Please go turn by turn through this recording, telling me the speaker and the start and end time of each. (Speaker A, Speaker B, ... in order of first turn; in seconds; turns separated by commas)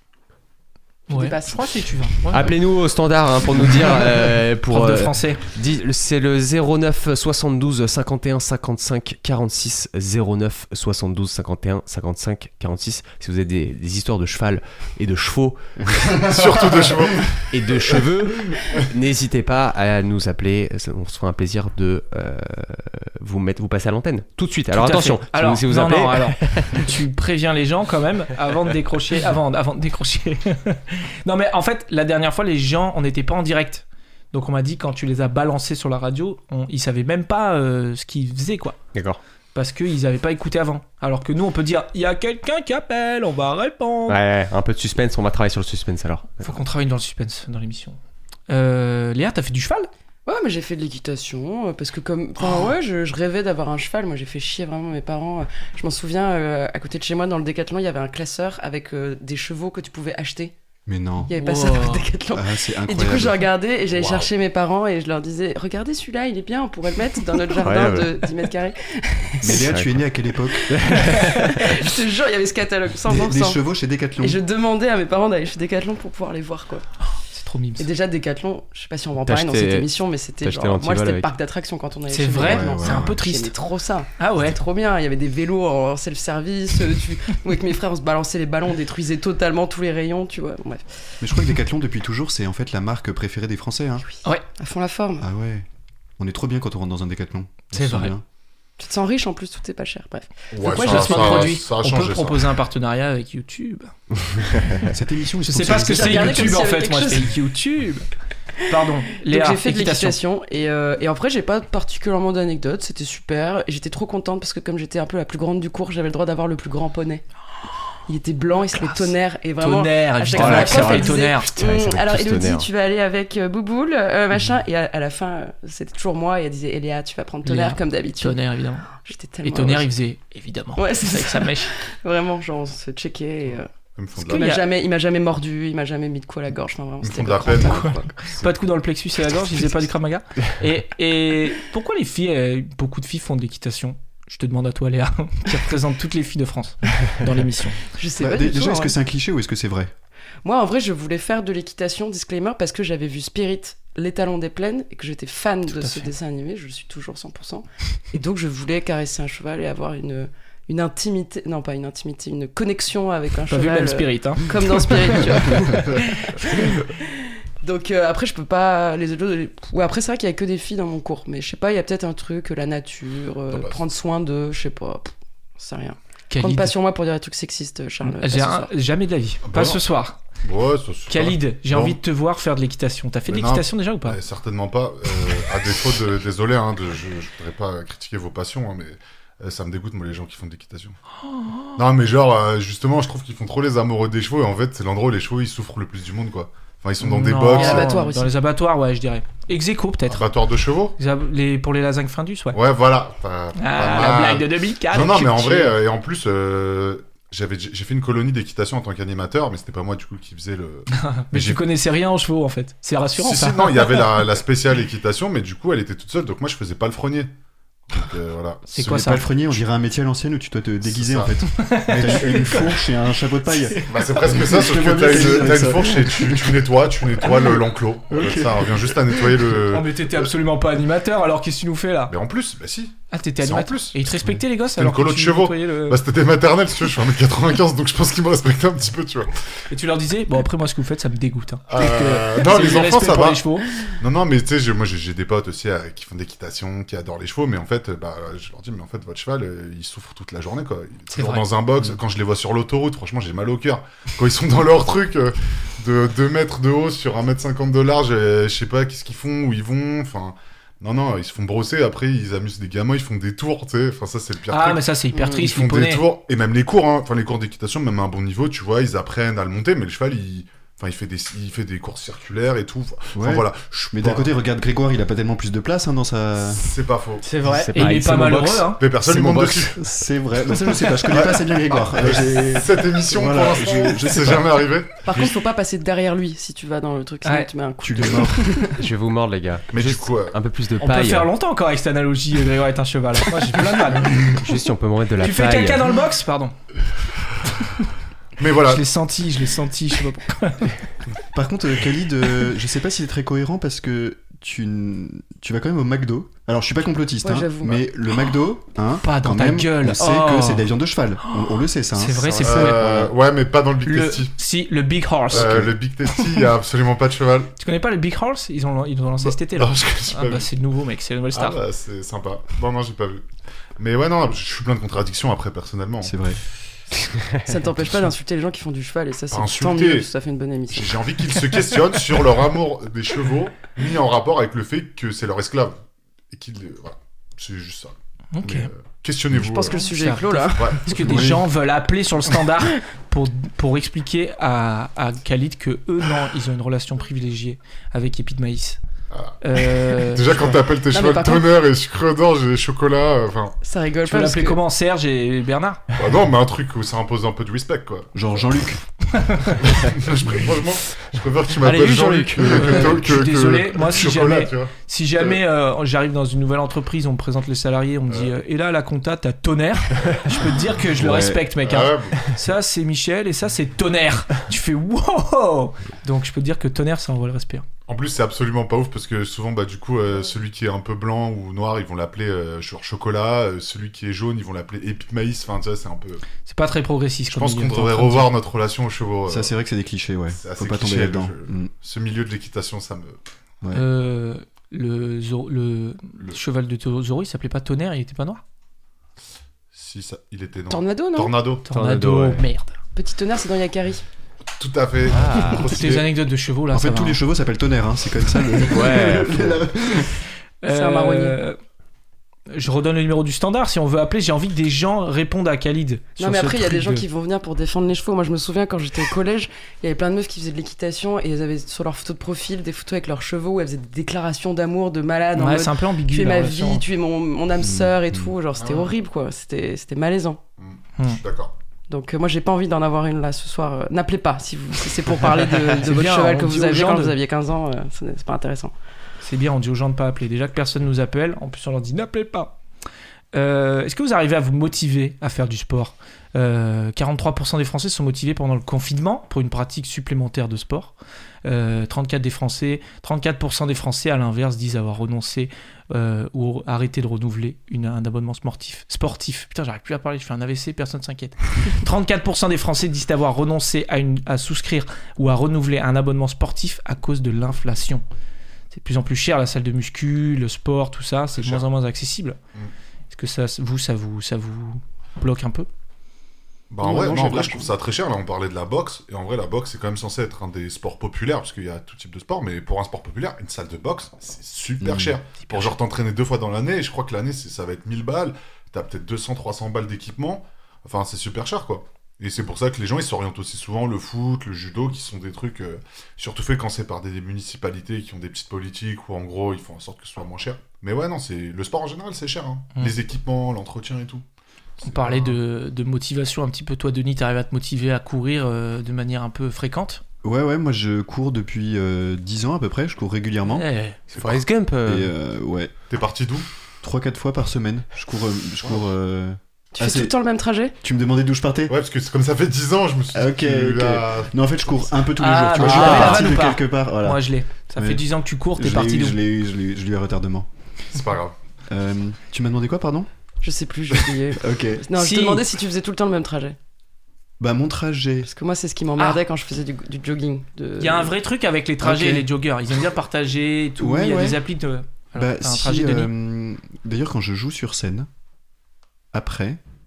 Speaker A: 1.1-1.7, Speaker B: 1.1-2.6, Speaker C: 2.3-16.1, Speaker B: 4.7-5.4, Speaker D: 16.1-18.0, Speaker E: 16.2-17.0, Speaker C: 17.5-26.9, Speaker B: 24.7-38.8, Speaker C: 38.9-39.2, Speaker B: 39.5-44.2, Speaker C: 44.1-46.5, Speaker B: 46.4-48.0, Speaker B: 48.5-49.9, Speaker A: 50.2-60.5, Speaker E: 60.9-61.3, Speaker A: 61.3-69.7, Speaker B: 61.3-62.1, Speaker E: 62.3-63.5, Speaker D: 63.9-64.3, Speaker C: 67.5-68.3, Speaker E: 69.4-71.0, Speaker C: 69.4-69.9, Speaker A: 70.4-73.6, Speaker C: 70.7-71.9, Speaker E: 73.0-74.4, Speaker A: 74.2-76.9, Speaker B: 77.3-77.9, Speaker A: 77.8-90.9, Speaker C: 79.2-81.3, Speaker B: 82.1-83.5, Speaker E: 82.4-83.2, Speaker B: 84.2-84.6, Speaker E: 91.2-94.0, Speaker A: 94.6-95.3, Speaker E: 95.2-95.7, Speaker E: 96.2-98.2, Speaker B: 97.7-98.1, Speaker A: 98.8-101.5, Speaker D: 100.5-102.5, Speaker B: 100.7-103.9, Speaker E: 104.8-106.7, Speaker B: 105.4-108.1, Speaker A: 105.7-107.4, Speaker B: 108.7-110.2, Speaker A: 109.2-117.2, Speaker A: 118.1-128.4, Speaker B: 118.7-121.5, Speaker C: 120.3-122.7, Speaker B: 127.4-128.9, Speaker A: 129.0-129.9, Speaker B: 129.4-131.7, Speaker A: 130.8-133.7, Speaker D: 133.9-134.5, Speaker A: 134.2-138.1, Speaker B: 134.2-134.6, Speaker D: 137.0-138.5, Speaker B: 137.6-147.8, Speaker A: 147.9-148.9, Speaker E: 148.2-149.9, Speaker A: 150.4-178.7, Speaker B: 155.7-156.1, Speaker B: 163.5-166.7, Speaker D: 173.5-173.8, Speaker B: 176.3-176.7, Speaker B: 178.0-180.2, Speaker D: 179.4-179.8, Speaker D: 180.4-182.0, Speaker B: 181.1-184.2, Speaker D: 183.3-190.9, Speaker B: 191.3-191.8, Speaker D: 191.8-198.1, Speaker B: 197.0-200.3, Speaker A: 197.5-198.3, Speaker D: 200.1-201.0, Speaker B: 201.0-202.6, Speaker D: 202.5-211.6, Speaker B: 203.6-205.8, Speaker B: 210.9-214.2, Speaker D: 213.2-217.3, Speaker D: 217.9-218.7, Speaker B: 218.7-219.2, Speaker E: 218.8-226.7, Speaker D: 220.8-221.4, Speaker B: 221.5-222.7, Speaker D: 221.9-222.3, Speaker B: 223.7-224.0, Speaker D: 223.8-230.2, Speaker E: 227.2-227.6, Speaker E: 228.1-229.4, Speaker B: 229.7-232.1, Speaker D: 232.1-234.0, Speaker B: 233.1-236.0, Speaker D: 234.7-239.3, Speaker B: 239.7-243.7, Speaker D: 241.7-274.3, Speaker B: 251.1-251.5, Speaker B: 264.5-266.0, Speaker E: 273.1-276.6, Speaker D: 276.5-277.6, Speaker B: 277.3-278.8, Speaker C: 277.3-279.9, Speaker D: 278.8-279.8, Speaker E: 279.8-284.6, Speaker D: 281.1-285.3, Speaker A: 285.0-288.8, Speaker B: 287.2-287.5, Speaker E: 287.8-288.6, Speaker C: 288.8-291.3, Speaker D: 289.7-290.4, Speaker B: 290.8-294.4, Speaker C: 294.1-295.9, Speaker B: 295.2-296.5, Speaker B: 297.6-297.9, Speaker D: 298.4-298.9, Speaker B: 298.6-300.8, Speaker E: 301.3-313.1, Speaker A: 307.2-307.9, Speaker B: 309.0-310.7, Speaker B: 311.3-312.9, Speaker D: 312.4-314.4, Speaker B: 313.9-315.5, Speaker D: 315.3-317.5, Speaker E: 315.3-315.7, Speaker B: 317.6-321.6, Speaker D: 319.2-320.5, Speaker D: 321.3-323.2, Speaker D: 323.8-326.2, Speaker E: 326.0-326.4, Speaker A: 327.4-330.9, Speaker D: 329.3-330.1, Speaker D: 330.7-339.8, Speaker B: 338.3-338.7, Speaker A: 339.3-340.9, Speaker B: 339.7-348.8, Speaker D: 340.6-341.2, Speaker E: 341.0-341.4, Speaker D: 349.1-353.6, Speaker B: 349.4-350.5, Speaker A: 350.9-351.5, Speaker A: 353.6-354.6, Speaker B: 354.0-355.8, Speaker D: 355.9-358.1, Speaker E: 358.1-358.8, Speaker B: 359.1-359.7, Speaker D: 359.6-365.4, Speaker C: 361.6-363.0, Speaker B: 362.4-377.6, Speaker E: 370.9-371.4, Speaker D: 371.6-372.3, Speaker D: 377.9-386.2, Speaker B: 386.4-388.3, Speaker D: 387.3-389.5, Speaker E: 389.3-391.7, Speaker D: 390.3-393.2, Speaker B: 393.7-398.4, Speaker D: 399.7-401.7, Speaker A: 400.7-401.4, Speaker B: 401.6-402.8, Speaker C: 401.7-402.5, Speaker A: 402.9-404.0, Speaker D: 404.6-406.1, Speaker C: 405.1-405.7, Speaker B: 405.4-407.2, Speaker E: 406.7-410.2, Speaker C: 408.7-409.6, Speaker B: 410.6-411.6, Speaker A: 410.7-411.4, Speaker B: 412.5-417.0, Speaker A: 416.2-430.4, Speaker B: 425.4-426.9, Speaker E: 427.6-428.3, Speaker D: 428.6-428.9, Speaker D: 430.6-431.5, Speaker A: 431.9-438.7, Speaker B: 435.7-437.1, Speaker B: 439.2-442.6, Speaker B: 443.3-450.9, Speaker B: 451.4-468.0, Speaker B: 468.7-472.4, Speaker D: 471.3-471.6, Speaker B: 473.1-475.7, Speaker D: 476.7-504.2, Speaker A: 476.8-477.7, Speaker E: 484.8-485.1, Speaker B: 485.5-485.7, Speaker D: 504.8-505.4, Speaker B: 504.8-510.0, Speaker E: 510.2-513.6, Speaker B: 513.5-514.0, Speaker C: 514.1-515.1, Speaker D: 514.1-514.4, Speaker E: 514.9-515.7, Speaker D: 515.9-516.5, Speaker E: 516.8-520.1, Speaker A: 519.8-520.7, Speaker E: 520.8-521.8, Speaker D: 521.7-524.3, Speaker E: 523.1-528.0, Speaker B: 525.1-529.2, Speaker D: 525.6-526.3, Speaker C: 525.6-526.2, Speaker E: 528.6-530.5, Speaker D: 530.9-531.4, Speaker E: 531.7-533.1, Speaker A: 533.4-536.6, Speaker E: 534.4-534.9, Speaker B: 534.9-535.4, Speaker E: 537.4-538.3, Speaker A: 538.2-541.1, Speaker B: 540.8-546.1, Speaker E: 541.8-542.3, Speaker E: 543.8-544.4, Speaker E: 545.1-548.1, Speaker E: 549.1-549.6